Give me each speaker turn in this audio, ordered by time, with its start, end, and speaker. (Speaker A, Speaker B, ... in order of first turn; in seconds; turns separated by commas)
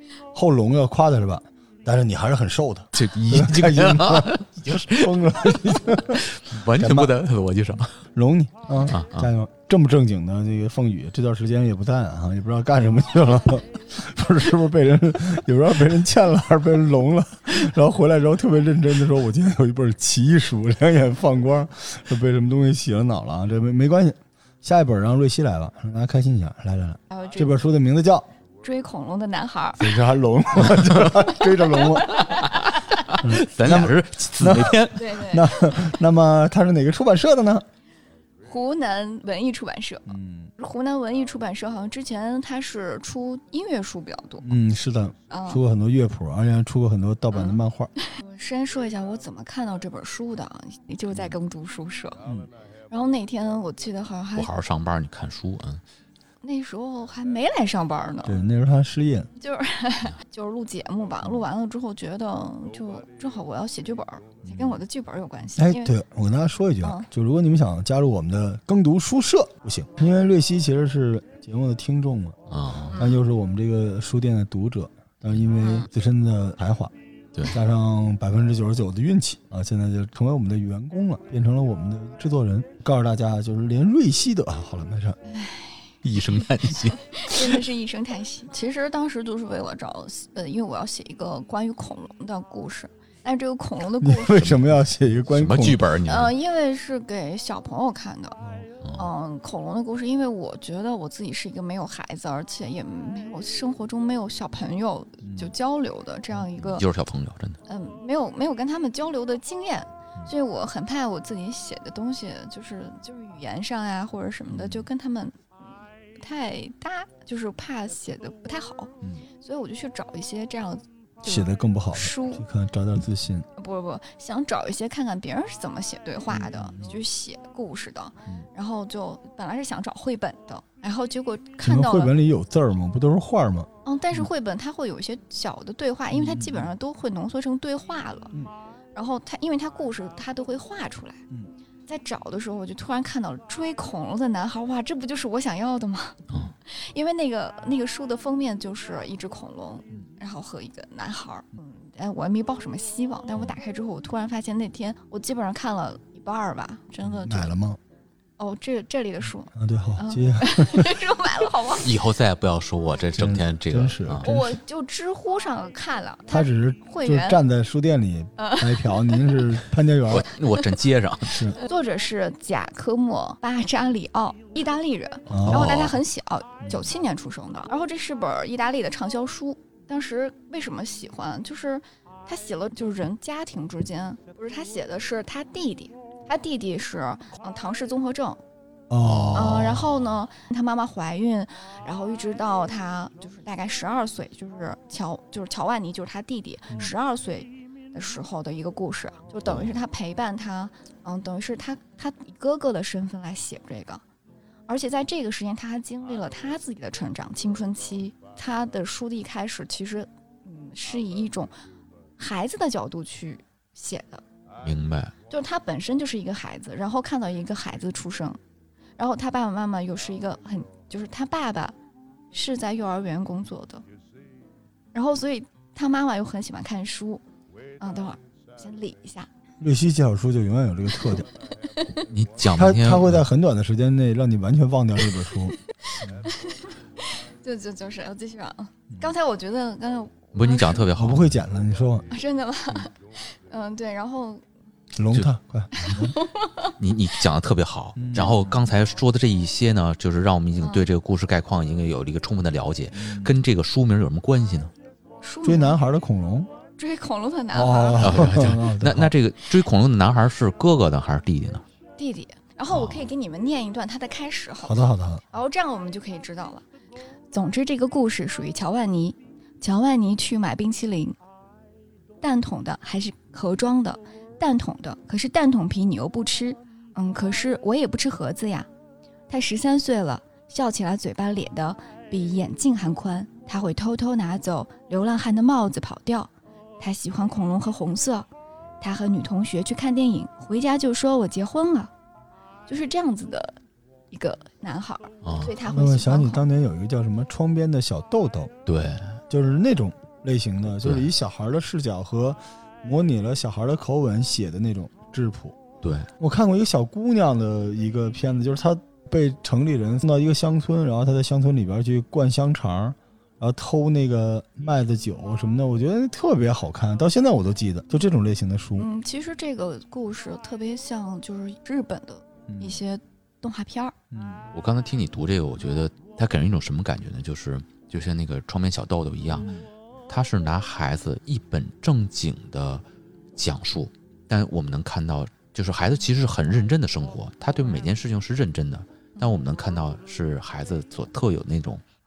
Speaker A: 0.3-7.1, Speaker B: 2.9-7.9, Speaker A: 8.2-28.3, Speaker B: 8.9-9.3, Speaker C: 27.1-27.6, Speaker C: 28.6-29.9, Speaker A: 29.8-32.3, Speaker C: 31.6-32.6, Speaker B: 32.2-35.1, Speaker A: 33.2-37.6, Speaker C: 34.9-35.9, Speaker C: 38.5-44.5, Speaker A: 40.1-40.5, Speaker A: 44.4-47.9, Speaker C: 45.3-45.6, Speaker C: 47.3-52.2, Speaker C: 52.9-54.5, Speaker B: 54.4-55.8, Speaker C: 56.4-58.4, Speaker A: 58.2-59.3, Speaker C: 59.4-65.9, Speaker A: 65.5-72.4, Speaker C: 66.8-67.1, Speaker B: 72.5-73.0, Speaker C: 72.9-73.2, Speaker A: 72.9-76.9, Speaker C: 75.6-75.9, Speaker A: 77.5-85.2, Speaker C: 85.3-85.8, Speaker B: 86.0-87.6, Speaker C: 87.0-94.5, Speaker A: 94.0-95.9, Speaker B: 94.3-94.7, Speaker B: 95.3-96.3, Speaker C: 96.0-98.4, Speaker B: 98.8-99.1, Speaker C: 98.9-106.8, Speaker A: 105.2-105.5, Speaker B: 106.6-107.6, Speaker C: 107.7-122.4, Speaker A: 121.2-123.5, Speaker C: 123.5-132.1, Speaker A: 126.3-127.0, Speaker A: 131.6-134.3, Speaker C: 133.8-138.3, Speaker A: 136.1-136.7, Speaker C: 138.9-141.2, Speaker C: 141.9-157.5, Speaker A: 157.0-157.8, Speaker C: 158.4-161.9, Speaker A: 159.5-161.0, Speaker B: 161.8-164.3, Speaker A: 163.2-164.5, Speaker C: 164.2-167.4, Speaker A: 166.3-170.3, Speaker C: 168.4-169.4, Speaker B: 170.1-171.4, Speaker A: 171.3-171.6, Speaker C: 171.6-188.4, Speaker A: 175.3-175.9, Speaker B: 175.4-176.0, Speaker A: 188.9-189.9, Speaker B: 189.1-189.4, Speaker C: 189.3-204.0, Speaker B: 199.5-199.7, Speaker C: 204.7-211.5, Speaker C: 212.2-214.2, Speaker B: 214.6-215.1, Speaker C: 215.3-218.4, Speaker C: 219.0-221.8, Speaker C: 222.3-223.8, Speaker C: 224.9-227.2, Speaker C: 227.8-229.3, Speaker A: 229.6-231.3, Speaker B: 232.0-233.2, Speaker A: 232.6-236.2, Speaker C: 236.2-240.8, Speaker B: 240.3-241.3, Speaker A: 240.9-242.1, Speaker C: 242.1-244.4, Speaker A: 244.9-246.1, Speaker C: 245.8-246.7, Speaker B: 246.8-254.7, Speaker A: 247.9-248.4, Speaker C: 250.6-250.9, Speaker A: 252.9-253.3, Speaker C: 255.2-255.8, Speaker A: 255.4-256.5, Speaker C: 256.8-258.3, Speaker A: 257.5-259.1, Speaker B: 258.0-261.6, Speaker C: 262.0-266.6, Speaker B: 262.7-263.1, Speaker A: 264.6-265.2, Speaker C: 267.3-271.1, Speaker C: 272.2-278.7, Speaker C: 279.3-288.3, Speaker C: 288.8-291.9, Speaker C: 292.7-293.6, Speaker C: 294.1-296.4, Speaker B: 295.2-295.5, Speaker A: 295.7-298.5, Speaker B: 298.6-299.2, Speaker A: 299.3-305.6, Speaker B: 300.8-301.1, Speaker B: 305.8-306.1, Speaker A: 306.2-318.9, Speaker C: 318.8-323.9, Speaker A: 322.5-322.8, Speaker A: 324.1-324.4, Speaker B: 324.5-329.5, Speaker A: 329.4-329.6, Speaker B: 330.1-332.8, Speaker B: 333.4-341.8